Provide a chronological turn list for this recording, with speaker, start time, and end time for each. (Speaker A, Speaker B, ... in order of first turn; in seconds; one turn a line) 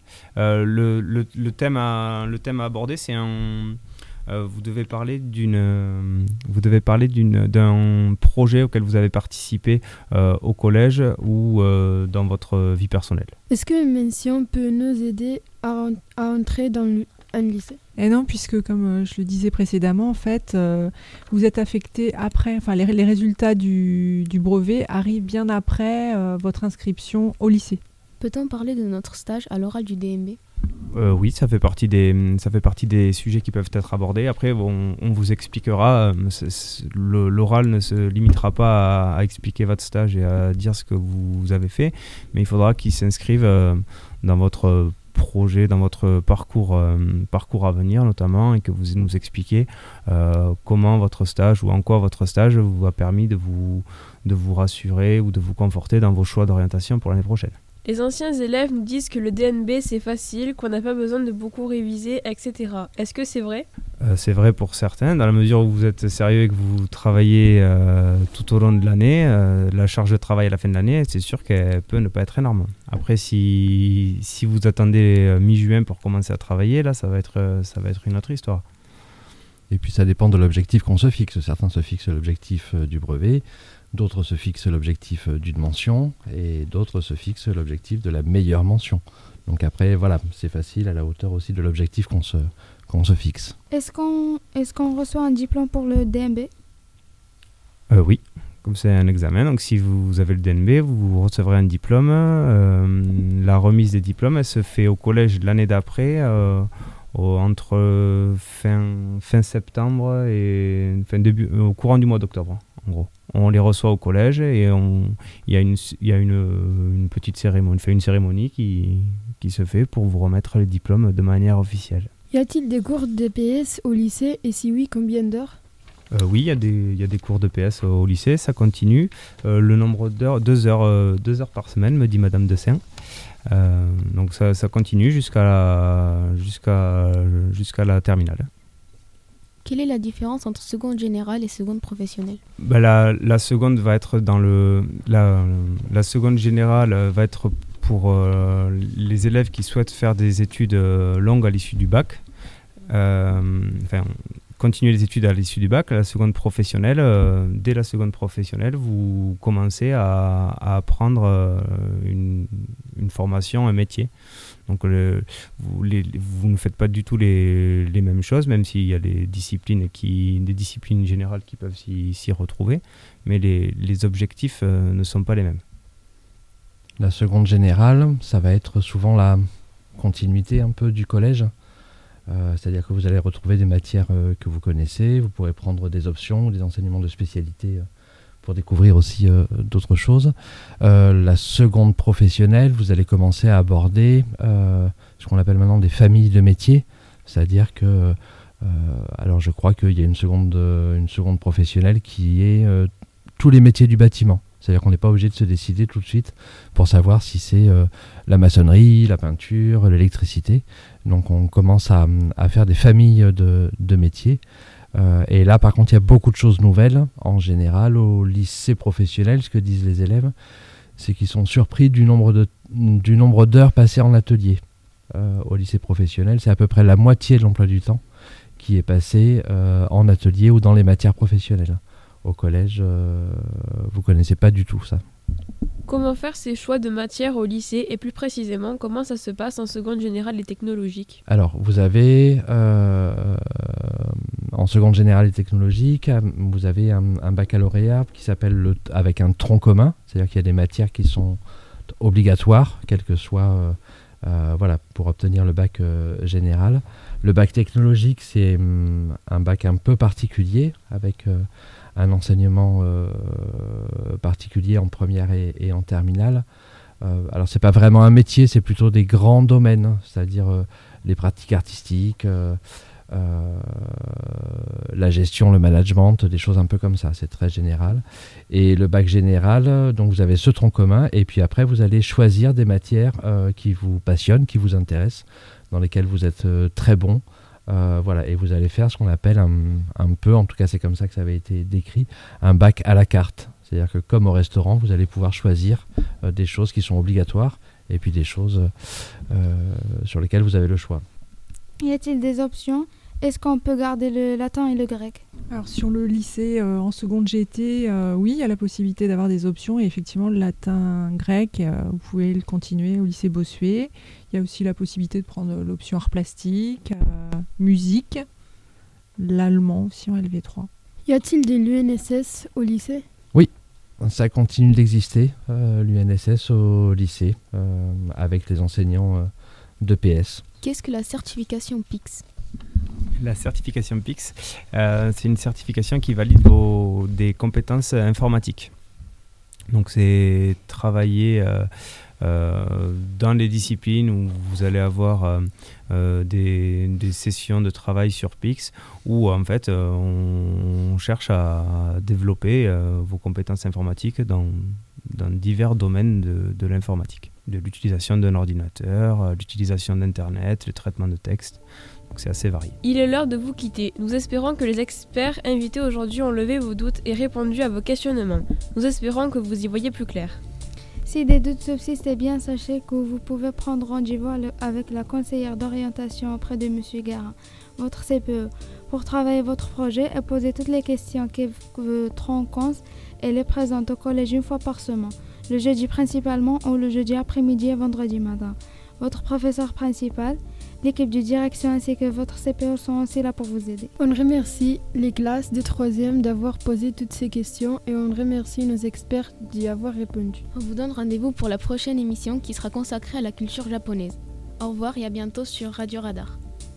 Speaker A: 0.4-13.3
Speaker B: 13.5-17.8
Speaker C: 18.0-27.8
Speaker D: 28.2-30.4
Speaker A: 30.9-57.6
Speaker E: 57.9-63.7
Speaker A: 64.0-78.7
Speaker F: 79.7-93.6
Speaker G: 93.7-96.5
Speaker A: 97.9-122.1
Speaker B: 122.3-125.6
Speaker A: 126.1-132.8
Speaker A: 133.5-138.5
Speaker D: 139.6-142.4
Speaker A: 142.6-152.2
Speaker A: 152.9-164.1
Speaker A: 164.7-175.6
Speaker F: 177.0-181.5
Speaker F: 182.3-187.8
Speaker F: 188.4-214.4
Speaker F: 214.9-220.3
Speaker F: 221.0-228.0
Speaker F: 228.6-235.0
Speaker E: 235.9-241.2
Speaker F: 241.3-251.4
Speaker F: 252.0-266.4
Speaker F: 267.0-301.0
Speaker G: 301.8-305.2
Speaker C: 305.5-318.3
Speaker C: 319.2-320.7
Speaker B: 321.1-323.1
Speaker F: 324.0-329.3
Speaker F: 329.8-330.4
Speaker D: 330.6-332.2
Speaker A: 333.2-338.7
Speaker A: 339.7-362.8
Speaker E: 362.8-370.4
Speaker G: 371.1-393.9
Speaker B: 394.0-400.4
Speaker D: 400.5-406.4